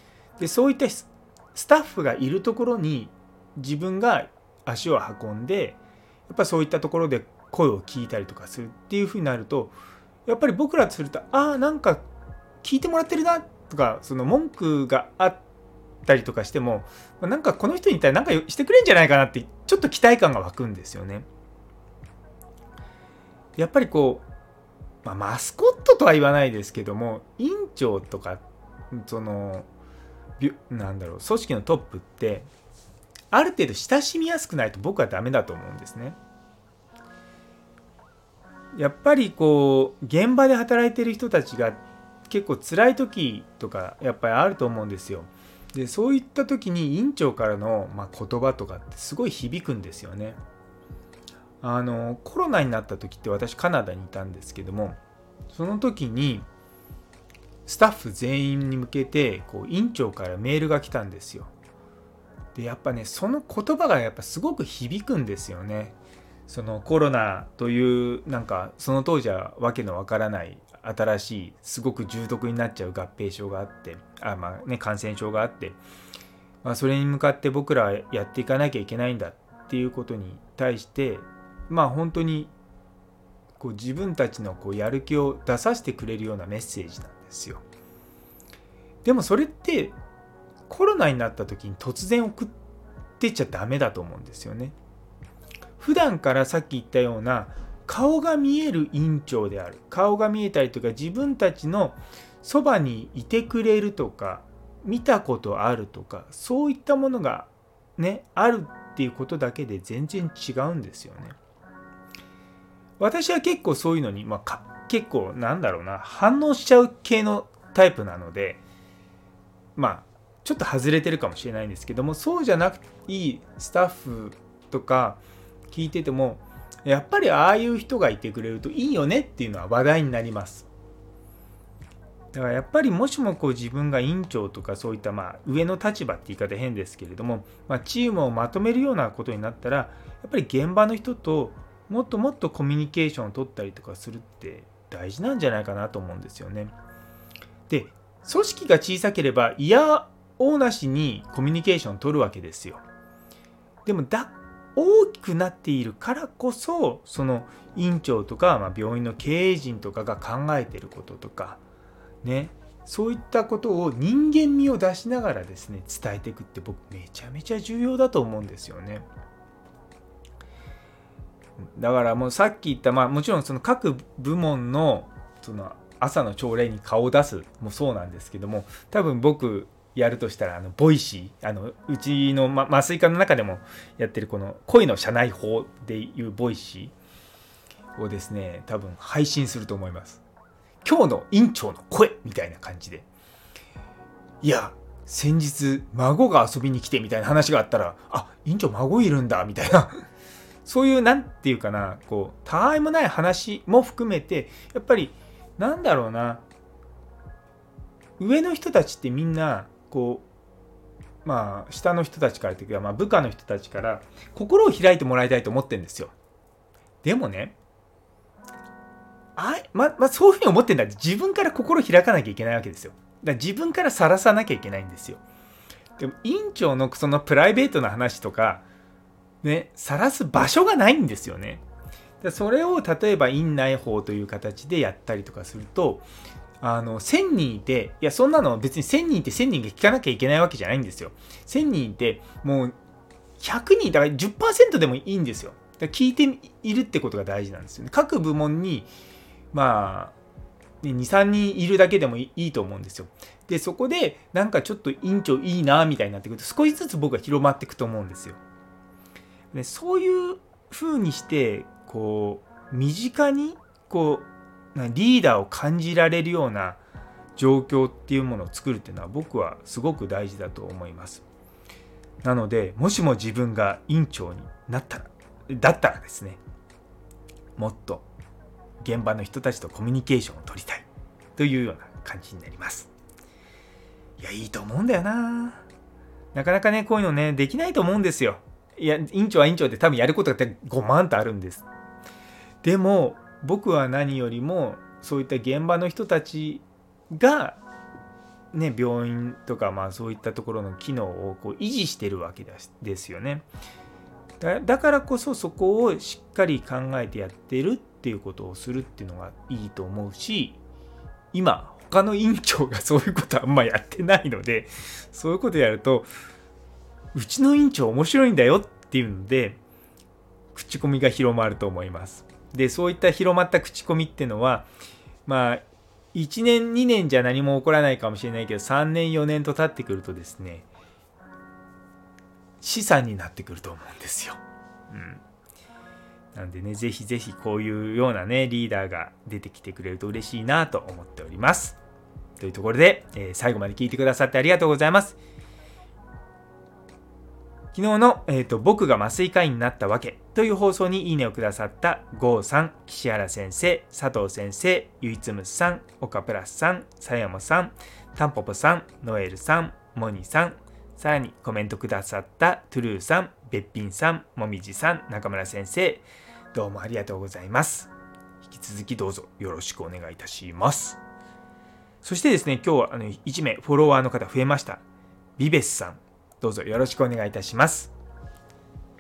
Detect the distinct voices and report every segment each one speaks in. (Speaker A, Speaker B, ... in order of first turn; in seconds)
Speaker A: 0.4-9.8, 10.3-12.1, 12.6-15.4, 16.1-21.3, 23.6-24.3, 25.0-29.7, 30.4-32.5, 33.3-36.2, 38.8-50.4, 51.6-55.0, 55.5-56.5, 57.7-61.5, 62.5-66.0, 66.5-75.8, 76.6-82.5, 83.6-87.6, 89.0-90.0, 90.7-92.5, 93.2-94.8, 95.8-111.4, 113.0-118.6, 119.8-125.2, 125.7-130.7, 132.3-146.7, 147.7-152.8, 153.8-161.6, 162.2-169.1, 171.6-186.9, 188.0-190.2, 190.8-193.1, 194.4-200.0, 200.7-206.4, 208.2-210.3, 211.2-216.1, 217.0-217.6, 219.4-225.2, 226.0-228.6, 229.4-231.6, 232.2-236.1, 236.6-242.8, 243.4-248.9, 249.5-250.2, 250.8-258.4, 259.5-266.8, 267.4-271.2, 272.2-276.4, 277.6-278.1, 278.8-280.9, 281.4-282.9, 284.2-285.6, 286.3-291.7, 292.6-297.6, 298.5-303.5, 304.4-310.6, 311.3-316.1, 317.1-319.6, 320.5-324.7, 325.3-330.7, 332.6-335.2, 336.3-341.8, 342.4-345.2, 347.7-367.9, 368.4-371.0, 372.0-374.8, 375.4-377.9